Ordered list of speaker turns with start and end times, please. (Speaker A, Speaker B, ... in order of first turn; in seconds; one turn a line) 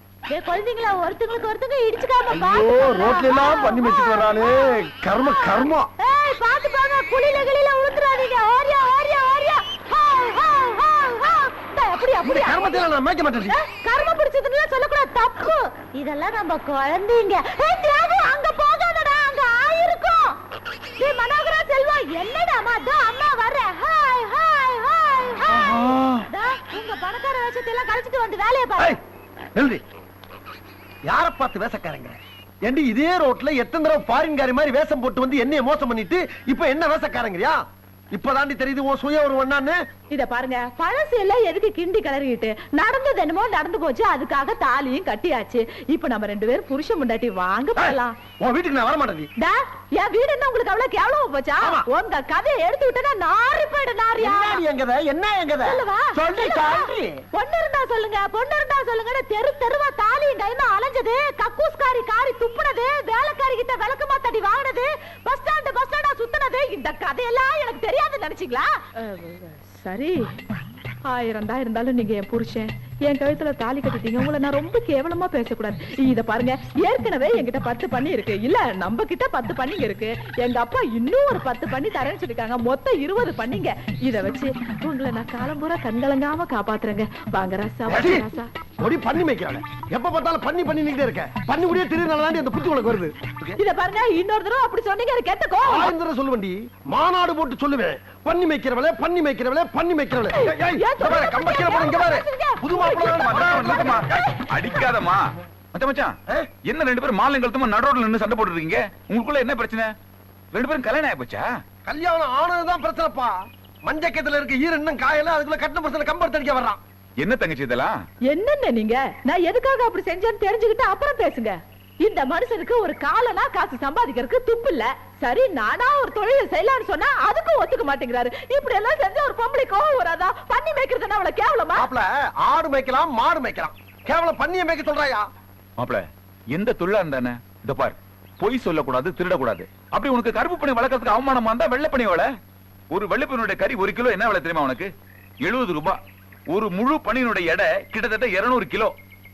Speaker A: 0.3-4.8
Speaker B: 2.3-5.9
Speaker A: 5.3-12.8
Speaker B: 12.2-13.5
Speaker A: 13.5-20.4
Speaker A: 21.0-25.8
Speaker B: 25.5-26.2
Speaker A: 26.3-29.0
Speaker B: 29.6-29.8
Speaker B: 31.1-37.6
Speaker B: 38.1-39.8
Speaker A: 40.1-48.1
Speaker B: 47.8-49.3
Speaker A: 49.4-54.6
Speaker B: 51.6-51.9
Speaker B: 54.2-57.2
Speaker A: 55.6-70.2
Speaker A: 71.1-88.5
Speaker B: 87.9-88.3
Speaker B: 88.8-93.6
Speaker A: 93.6-95.9
Speaker B: 95.7-104.1
Speaker A: 100.4-104.2
Speaker C: 103.0-105.2
Speaker C: 105.7-106.1
Speaker C: 106.7-109.9
Speaker C: 110.5-111.5
Speaker B: 111.8-116.8
Speaker C: 117.2-117.9
Speaker A: 118.3-131.9
Speaker B: 131.8-135.2
Speaker C: 135.8-142.3
Speaker C: 142.9-144.9
Speaker C: 145.4-146.0
Speaker C: 146.5-148.9